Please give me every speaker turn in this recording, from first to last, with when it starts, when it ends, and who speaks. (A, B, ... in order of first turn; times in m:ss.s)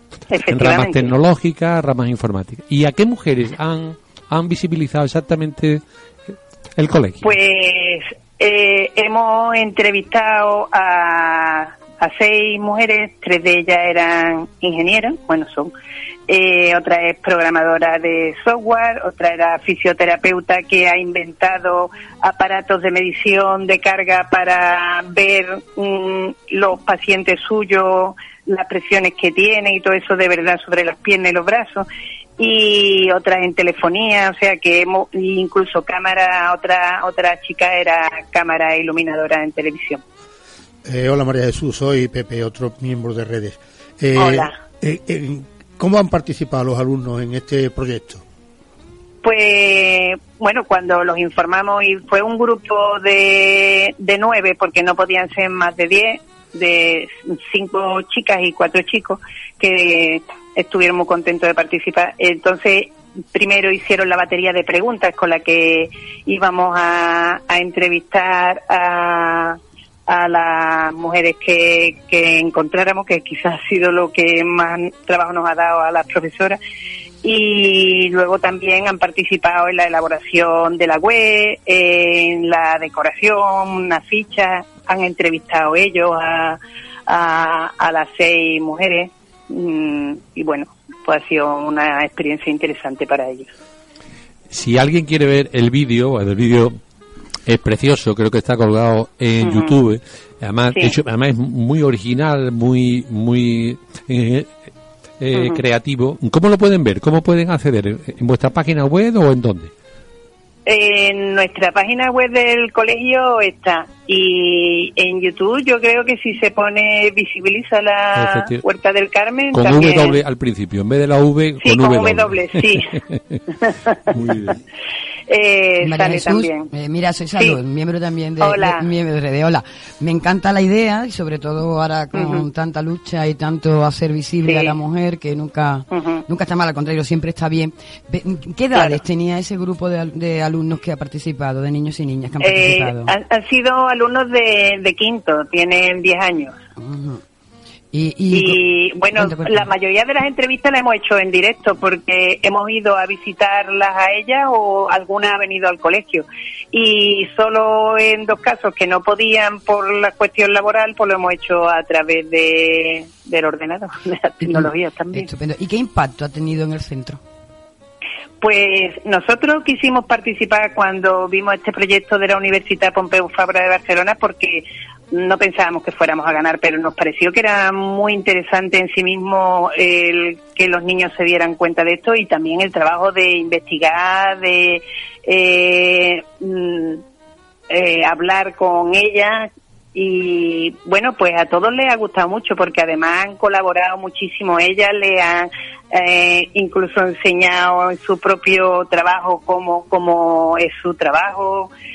0:00.3-0:01.1 A
0:00.5-0:05.8 B
0:06.8-0:07.3 B
0:07.2-0:15.7 A
0:16.3-0:31.8 A
0:32.4-0:40.0 A
0:40.8-0:48.2 C
0:44.2-0:44.5 A
0:49.2-1:16.6 A
1:17.2-1:33.5 A
1:34.5-1:36.7 B
1:37.4-1:44.5 B
1:39.4-1:39.7 A
1:45.2-1:49.7 B
1:45.3-1:45.6 A
1:50.6-2:00.2 A
1:58.1-1:58.6 B
1:59.5-2:03.4 B
2:01.6-2:04.1 A
2:04.0-2:04.6 B
2:05.3-2:06.7 A
2:05.8-2:23.1 D
2:08.4-2:08.8 A
2:12.1-2:12.4 A
2:14.4-2:14.8 A
2:15.9-2:16.2 A
2:18.7-2:19.0 A
2:22.4-2:26.6 A
2:26.8-2:27.2 D
2:27.9-2:29.7 D
2:28.3-2:45.3 A
2:44.4-2:47.2 D
2:48.4-3:07.0 A
3:07.7-3:21.7 A